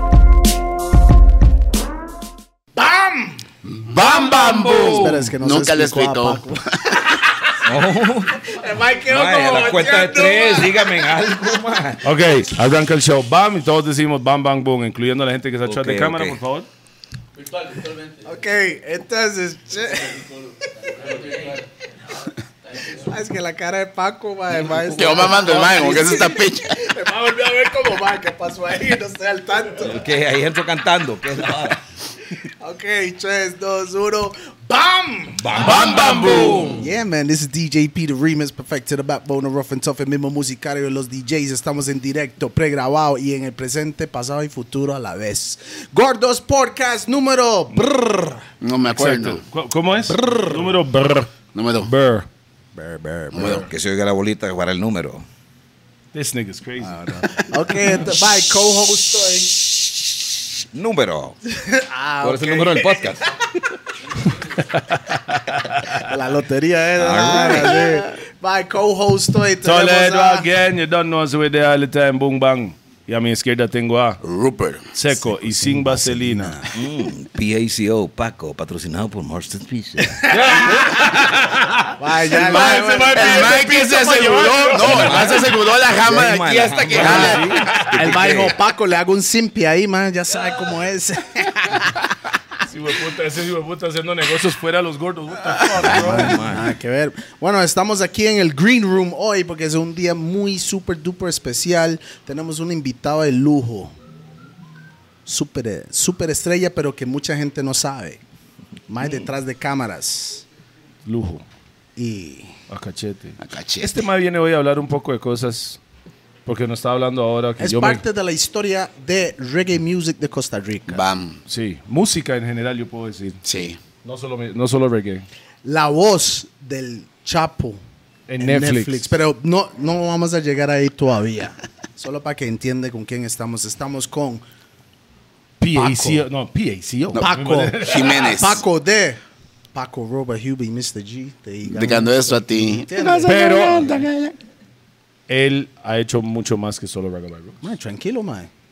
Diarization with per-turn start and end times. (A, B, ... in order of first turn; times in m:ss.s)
0:02.8-0:03.4 A
0:03.7-0:07.0 B
0:04.0-0:05.2 C
0:04.8-0:06.6 A
0:07.6-0:12.1 D
0:08.4-0:10.9 A
0:12.0-0:16.7 C
0:15.6-0:16.4 D
0:18.2-0:20.3 A
0:21.0-0:21.3 A
0:22.9-0:30.0 A
0:24.8-0:26.7 B
0:29.8-0:31.8 D
0:32.6-0:48.4 A
0:35.4-0:36.9 D
0:35.6-0:36.8 C
0:35.7-0:36.6 B
0:48.6-0:49.4 B
0:48.9-0:52.3 C
0:50.1-0:50.7 A
0:51.5-0:51.9 B
0:52.7-0:53.7 A
0:53.3-0:53.6 B
0:53.4-0:55.2 D
0:56.1-0:57.5 C
0:56.8-0:59.6 A
1:00.7-1:01.4 D
1:01.5-1:03.1 A
1:02.2-1:03.2 D
1:04.7-1:06.0 C
1:05.9-1:10.5 A
1:07.0-1:07.9 D
1:09.6-1:14.2 C
1:14.2-1:14.9 B
1:14.9-1:16.5 C
1:15.2-1:16.7 A
1:16.7-1:20.2 D
1:20.3-1:25.6 C
1:22.0-1:23.7 A
1:22.4-1:27.7 B
1:24.9-1:25.4 A
1:26.0-1:28.6 D
1:26.9-1:28.0 C
1:26.9-1:32.1 A
1:32.7-1:36.4 C
1:35.7-1:36.7 D
1:35.9-1:43.9 A
1:45.2-1:48.2 A
1:48.9-1:50.4 A
1:51.0-1:51.4 C
1:52.0-1:52.5 A
1:52.7-1:55.8 C
1:53.4-1:54.0 B
1:56.4-1:58.0 C
1:57.6-2:01.0 A
2:00.9-2:01.4 B
2:01.5-2:03.4 C
2:03.4-2:03.8 B
2:04.0-2:05.3 C
2:05.6-2:07.8 A
2:08.3-2:09.1 C
2:08.4-2:14.4 A
2:15.6-2:18.3 C
2:15.7-2:16.2 A
2:17.2-2:19.2 A
2:17.8-2:18.6 B
2:19.7-2:23.4 A
2:21.6-2:24.3 B
2:23.3-2:24.0 C
2:25.3-2:27.6 C
2:27.6-2:28.5 A